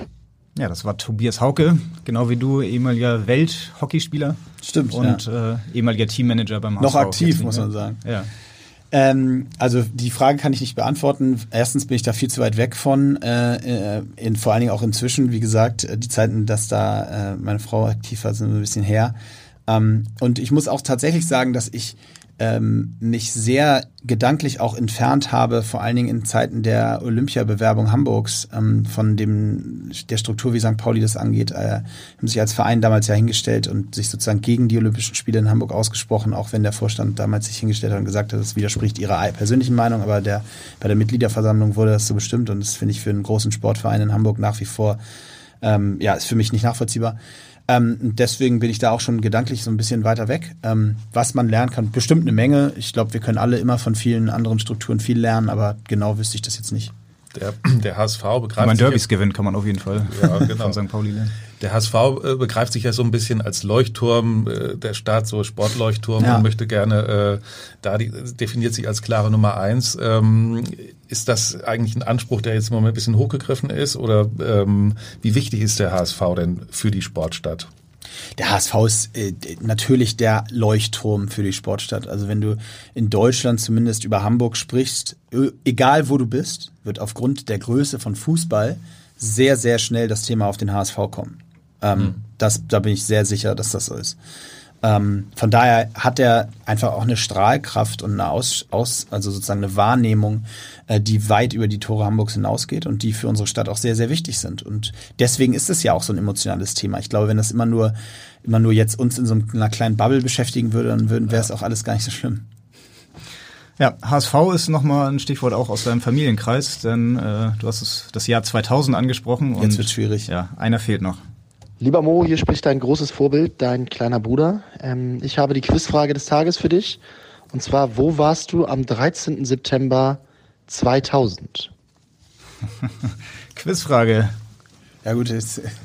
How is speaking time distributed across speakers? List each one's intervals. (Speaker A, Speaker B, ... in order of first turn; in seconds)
Speaker A: 0.6-4.4, 4.9-8.3, 58.6-61.3, 113.8-121.2, 133.5-134.3
Speaker B: 4.6-5.2, 6.8-8.0, 8.9-19.1, 19.7-45.0, 45.6-47.2, 47.7-56.9, 66.2-66.5, 78.4-94.2, 94.8-112.4, 119.6-120.3, 135.0-135.7
Speaker C: 57.3-59.0, 60.1-60.8, 61.6-77.7
Speaker D: 121.8-127.0, 127.5-131.7